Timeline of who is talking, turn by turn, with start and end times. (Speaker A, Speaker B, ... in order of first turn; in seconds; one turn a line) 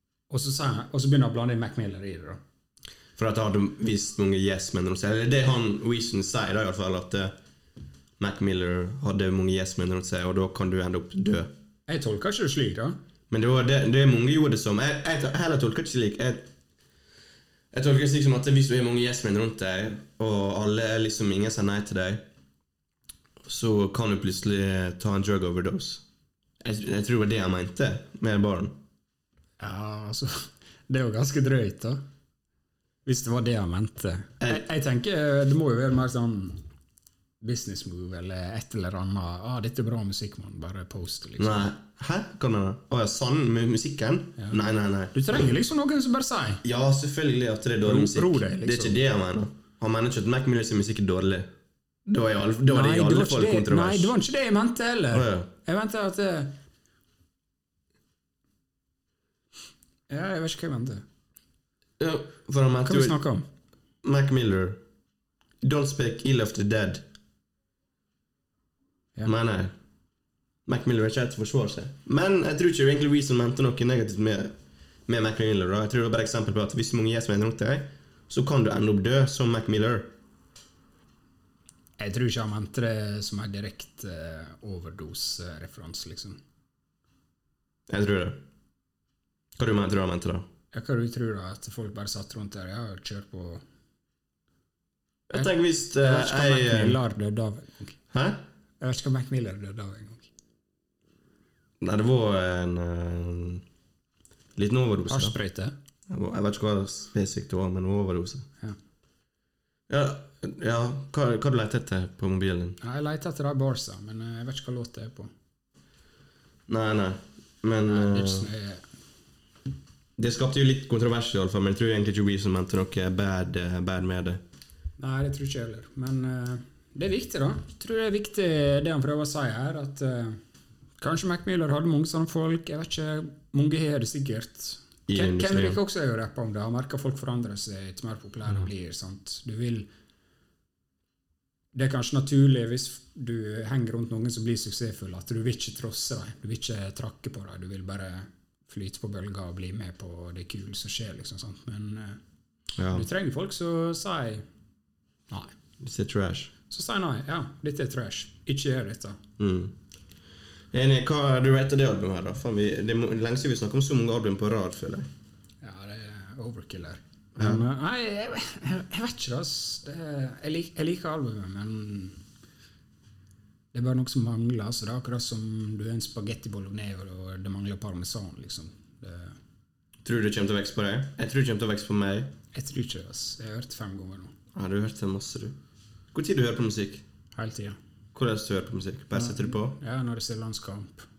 Speaker A: 0.3-2.4
Speaker B: 3.2-7.3
Speaker B: 8.2-11.5
Speaker A: 11.9-13.0
Speaker B: 13.3-16.5
Speaker B: 17.7-22.2
Speaker B: 23.4-26.0
Speaker B: 26.6-28.8
Speaker A: 29.6-32.0
Speaker A: 33.1-36.6
Speaker A: 37.4-41.7
Speaker B: 41.4-45.1
Speaker A: 45.1-46.6
Speaker B: 46.6-51.5
Speaker A: 47.9-49.0
Speaker B: 52.1-54.1
Speaker A: 52.7-56.6
Speaker B: 55.1-55.5
Speaker A: 60.1-61.0
Speaker B: 62.0-63.2
Speaker A: 62.8-63.5
Speaker B: 64.0-64.8
Speaker B: 65.6-67.0
Speaker B: 69.2-69.7
Speaker B: 70.7-74.5
Speaker B: 75.1-80.1
Speaker A: 82.0-86.4
Speaker B: 87.9-88.4
Speaker B: 89.6-90.5
Speaker A: 90.7-93.6
Speaker B: 95.3-97.0
Speaker A: 95.3-98.0
Speaker B: 98.1-98.4
Speaker A: 98.8-100.3
Speaker B: 101.8-103.6
Speaker B: 104.6-105.4
Speaker A: 105.1-105.8
Speaker B: 106.1-108.5
Speaker B: 109.9-112.8
Speaker A: 112.8-115.3
Speaker B: 116.7-118.5
Speaker A: 117.9-118.8
Speaker B: 120.2-124.4
Speaker A: 125.0-130.4
Speaker A: 131.0-139.9
Speaker B: 135.1-135.8
Speaker A: 141.7-152.2
Speaker B: 152.8-153.1
Speaker A: 152.9-154.4
Speaker B: 155.8-156.5
Speaker A: 156.7-159.2
Speaker B: 159.4-159.8
Speaker B: 160.7-165.1
Speaker A: 165.6-172.2
Speaker B: 167.4-167.6
Speaker A: 173.7-179.4
Speaker B: 180.0-182.3
Speaker A: 182.5-184.3
Speaker B: 184.6-185.6
Speaker B: 186.1-187.1
Speaker A: 187.4-187.8
Speaker B: 188.2-189.8
Speaker A: 189.1-191.1